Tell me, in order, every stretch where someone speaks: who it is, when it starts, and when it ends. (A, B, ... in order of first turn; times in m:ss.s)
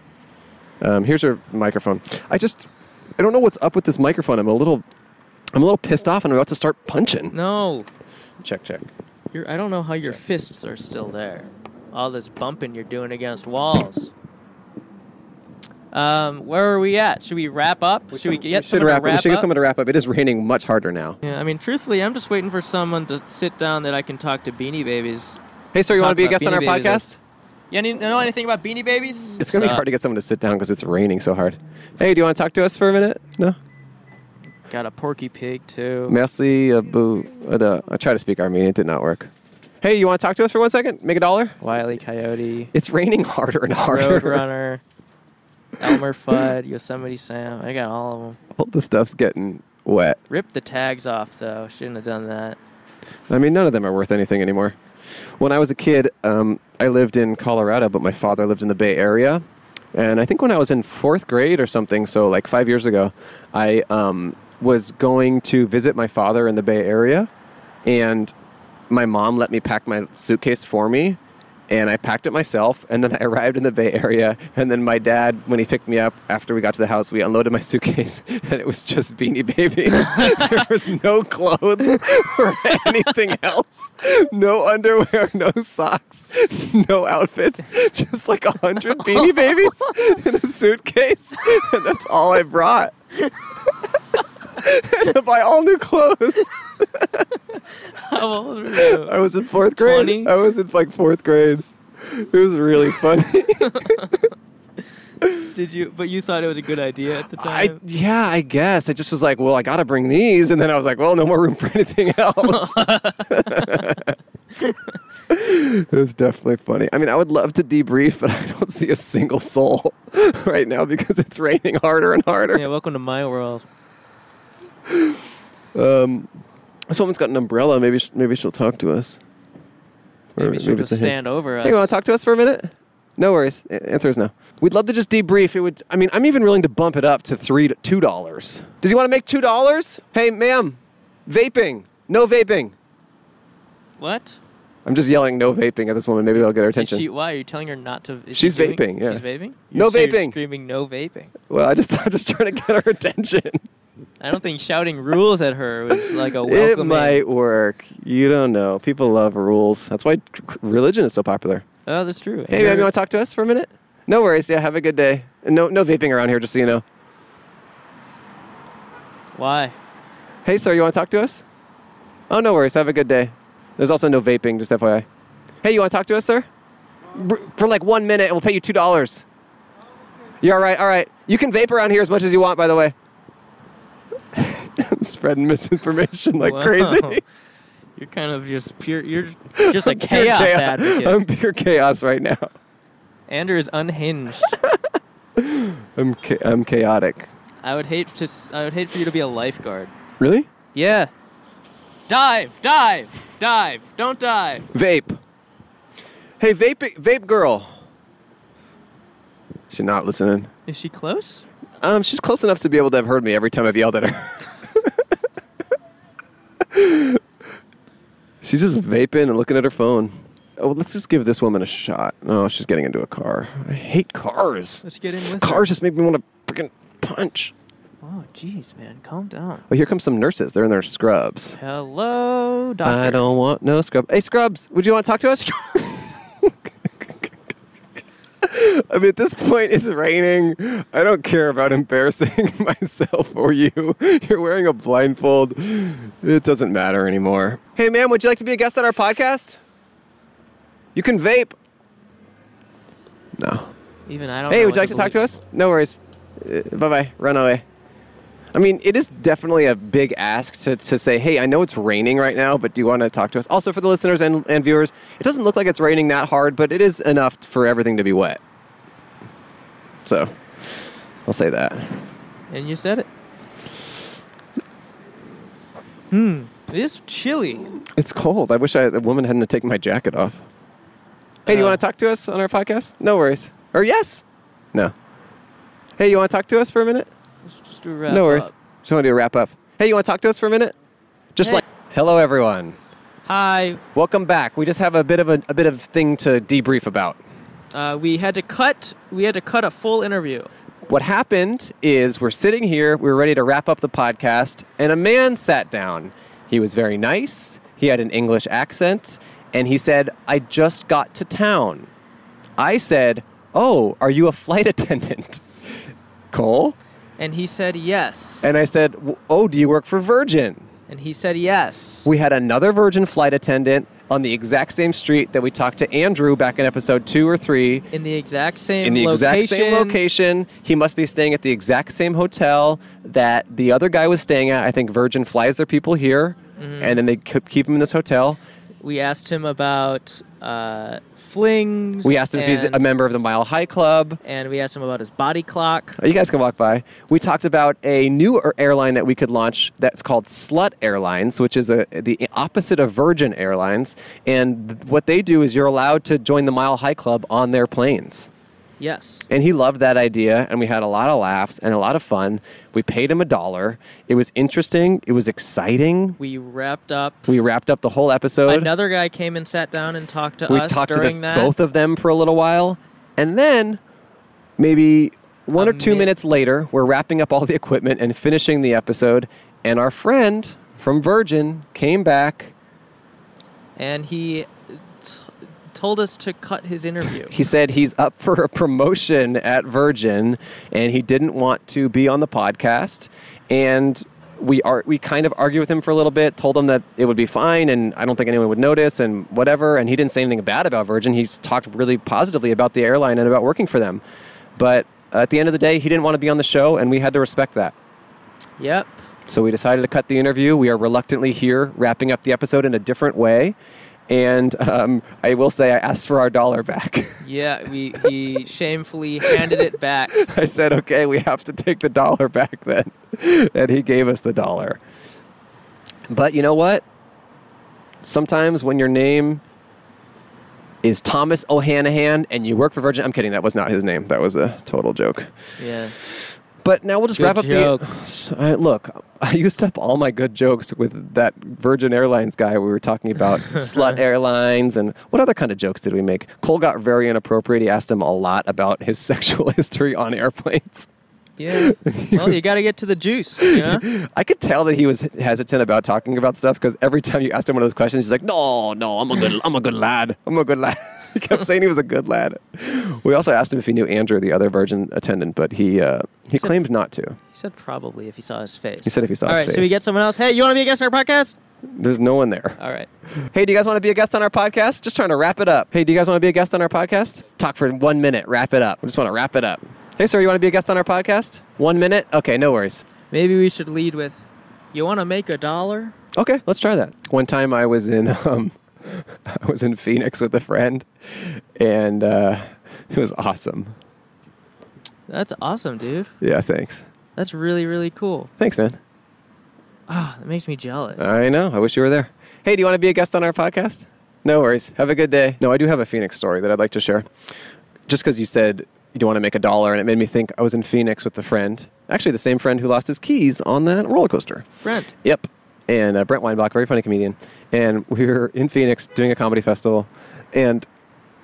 0:00.8-0:04.8 A
0:05.5-0:07.4 A
0:07.3-0:07.9 B
0:08.4-0:08.9 A
0:09.3-0:14.1 B
0:15.9-0:19.5 B
0:18.1-0:21.2 A
0:21.2-0:27.1 B
0:25.7-0:27.2 A
0:27.7-0:29.9 B
0:29.4-0:33.6 A
0:34.7-0:36.2 B
0:36.1-0:39.3 A
0:39.8-0:41.6 A
0:41.6-0:42.7 B
0:42.7-0:44.5 A
0:43.9-0:44.8 B
0:45.8-0:48.4 B
0:48.6-0:50.2 A
0:50.3-0:52.6 B
0:53.3-0:54.8 A
0:55.4-1:07.3 A
1:07.8-1:08.3 A
1:08.9-1:32.9 A
1:34.5-1:37.3 A
1:38.0-1:39.2 B
1:38.7-1:44.0 A
1:39.7-1:40.3 B
1:43.6-1:44.3 B
1:45.5-1:47.8 B
1:47.4-1:54.2 A
1:52.4-1:54.0 B
1:55.3-2:02.7 A
2:02.5-2:03.6 B
2:04.9-2:05.2 A
2:05.7-2:06.3 A
2:06.9-2:09.2 A
2:10.4-2:22.8 A
2:10.4-2:11.9 B
2:24.0-2:24.4 B
2:24.8-2:27.1 A
2:26.7-2:31.3 B
2:28.3-2:30.4 A
2:31.5-2:33.6 A
2:34.2-2:37.2 B
2:35.9-2:41.6 A
2:41.9-2:42.9 B
2:42.5-2:46.8 A
2:49.4-2:49.8 B
2:50.4-2:51.4 A
2:52.3-2:55.1 A
2:55.6-2:56.5 A
2:57.1-2:59.2 A
3:00.4-3:03.0 A
3:04.3-3:07.2 A
3:06.4-3:07.2 B
3:08.0-3:11.2 B
3:09.6-3:12.5 A
3:13.3-3:14.6 B
3:14.5-3:17.3 A
3:17.6-3:19.9 B
3:20.2-3:20.5 A
3:20.7-3:21.1 B
3:22.1-3:24.7 B
3:24.7-3:25.2 A
3:26.4-3:27.8 A
3:29.7-3:30.5 A
3:30.7-3:31.4 B
3:31.8-3:35.0 A
3:36.6-3:37.2 A
3:38.4-3:44.8 A
3:44.8-3:45.7 B
3:45.4-3:47.5 A
3:48.0-3:49.6 B
3:49.7-3:51.6 A
3:51.6-3:53.3 B
3:52.8-3:57.4 A
3:58.4-4:09.6 A
4:11.0-4:11.6 A
4:13.4-4:13.7 A
4:14.1-4:15.4 B
4:14.5-4:17.6 A
4:18.5-4:28.4 A
4:30.0-4:32.0 A
4:32.5-4:33.1 B
4:36.1-4:37.7 B
4:37.8-4:40.4 A
4:41.5-4:41.8 B
4:41.5-4:44.9 A
4:46.0-4:47.1 A
4:47.4-4:48.5 B
4:48.1-4:50.8 A
4:51.4-4:52.8 A
4:53.3-4:53.8 B
4:54.0-4:57.2 A
4:57.7-5:00.5 B
5:00.9-5:11.9 A
5:12.6-5:16.8 A
5:17.2-5:18.5 B
5:18.4-5:20.7 A
5:20.9-5:22.1 B
5:22.0-5:27.9 A
5:27.9-5:30.0 B
5:28.8-5:38.4 A
5:36.6-5:37.0 B
5:38.8-5:42.8 B
5:42.0-5:44.2 A
5:44.2-5:46.0 B
5:46.0-5:58.3 A
5:58.8-5:59.2 B
5:59.3-6:06.2 A
6:06.2-6:07.3 B
6:07.3-6:08.7 A
6:08.5-6:11.5 B
6:10.5-6:13.8 A
6:14.6-6:22.5 A
6:15.6-6:16.1 B
6:23.8-6:27.4 B
6:27.3-6:44.0 A
6:44.6-6:47.8 A
6:48.6-6:49.0 B
6:49.3-6:53.6 A
6:54.1-6:57.3 A
6:57.2-7:00.2 B
6:59.2-7:04.8 A
7:06.1-7:06.8 A
7:08.0-7:09.4 A
7:10.8-7:15.3 A
7:15.6-7:16.0 B
7:16.0-7:30.9 A
7:17.2-7:17.9 B
7:23.6-7:24.0 B
7:31.4-7:33.9 B
7:31.5-7:32.4 A
7:33.4-7:47.2 A
7:47.3-7:51.4 B
7:48.8-7:49.7 A
7:51.7-7:52.6 A
7:52.6-7:52.9 B
7:53.3-8:02.8 A
8:03.1-8:06.0 B
8:06.2-8:13.8 A
8:15.1-8:16.1 B
8:16.2-8:16.9 A
8:17.2-8:18.3 B
8:18.4-8:18.8 A
8:19.9-8:21.1 B
8:21.0-8:27.1 A
8:27.9-8:34.5 A
8:34.6-8:34.9 B
8:35.0-8:40.7 A